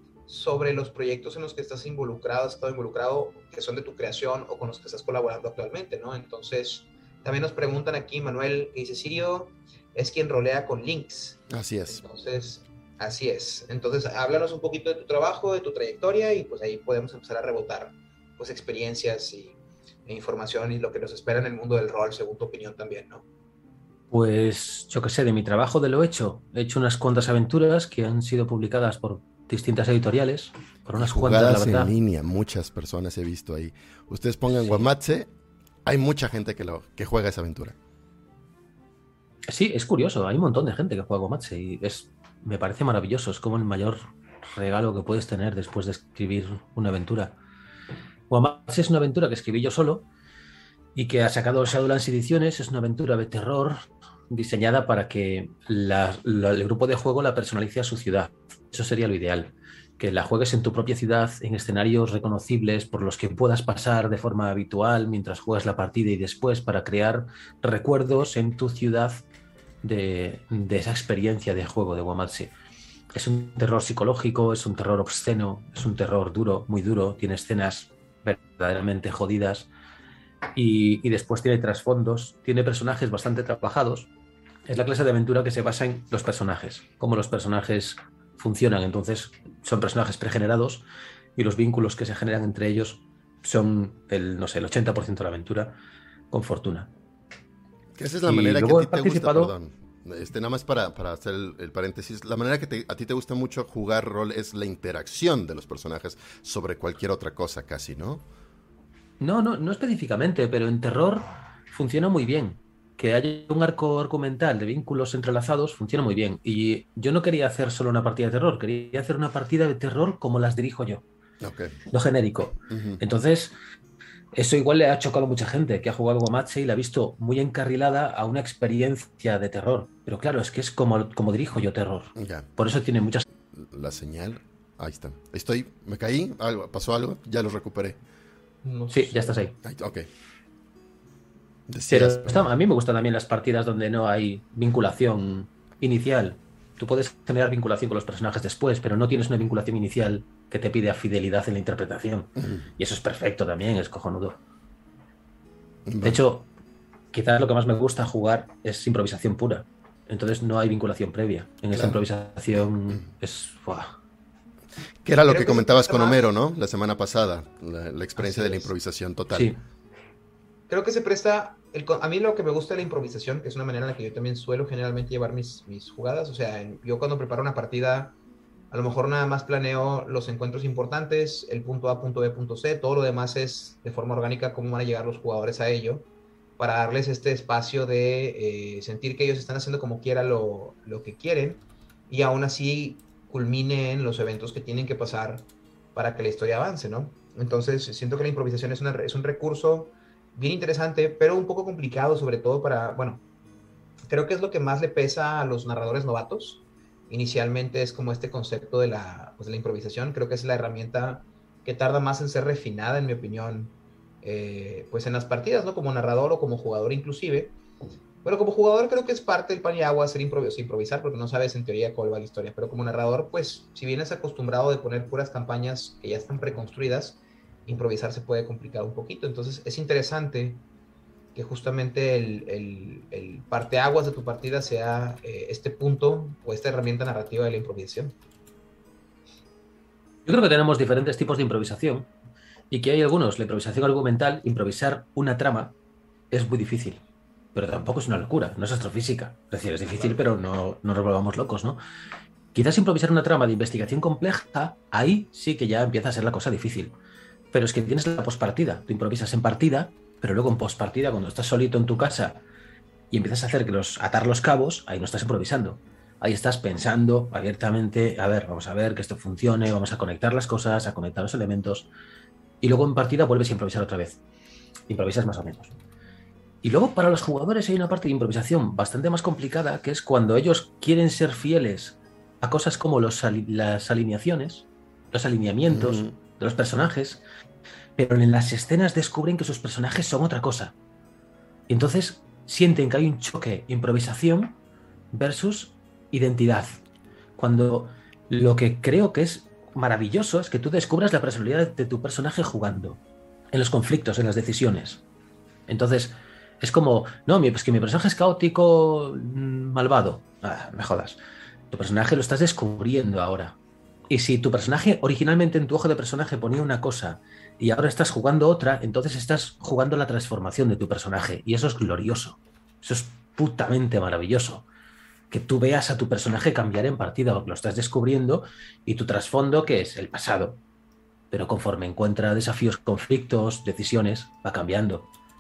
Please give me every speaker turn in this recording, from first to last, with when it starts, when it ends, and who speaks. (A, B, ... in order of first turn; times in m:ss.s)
0:00.3-0:23.2 A
0:11.5-0:12.0 B
0:24.1-0:31.9 C
0:31.0-0:35.3 B
0:34.5-0:34.9 C
0:35.9-0:37.8 B
0:39.5-0:47.4 C
0:48.3-0:50.1 C
0:51.0-1:09.2 C
1:09.8-1:12.5 C
1:13.1-1:19.7 C
1:20.6-1:24.1 C
1:24.7-1:30.8 C
1:31.4-1:35.8 C
1:36.3-1:36.9 C
1:38.0-1:48.2 B
1:38.3-1:39.5 C
1:49.2-2:01.0 C
2:01.4-2:01.8 B
2:01.9-2:03.5 C
2:02.7-2:03.0 B
2:04.3-2:13.2 C
2:12.2-2:12.5 B
2:13.5-2:18.0 B
2:18.6-2:19.4 A
2:18.9-2:19.6 C
2:19.6-2:20.1 B
2:21.7-2:22.5 B
2:21.9-2:34.4 C
2:32.4-2:32.7 B
2:35.9-2:36.2 B
2:36.0-2:36.5 C
2:37.1-2:44.0 C
2:41.7-2:42.0 B
2:45.0-2:49.5 B
2:45.3-2:46.2 A
2:48.2-2:48.7 A
2:49.3-2:49.6 C
2:50.7-2:58.2 A
2:58.7-3:06.1 A
3:06.6-3:23.2 A
3:24.1-3:37.6 A
3:38.2-3:50.6 A
3:51.4-3:58.2 A
4:00.3-4:02.1 C
4:02.7-4:05.7 C
4:06.3-4:07.0 C
4:07.6-4:11.8 C
4:10.0-4:10.2 A
4:12.5-4:16.9 C
4:17.5-4:22.4 C
4:23.1-4:31.9 C
4:32.6-4:34.2 C
4:34.9-4:35.7 C
4:36.6-4:47.2 C
4:45.7-4:46.2 B
4:48.0-4:50.8 C
4:51.7-4:54.6 C
4:55.1-4:56.8 C
4:57.4-5:03.0 C
5:03.5-5:05.0 C
5:05.7-5:11.2 C
5:11.7-5:13.6 C
5:14.1-5:24.7 C
5:25.3-5:30.6 C
5:31.3-5:35.1 C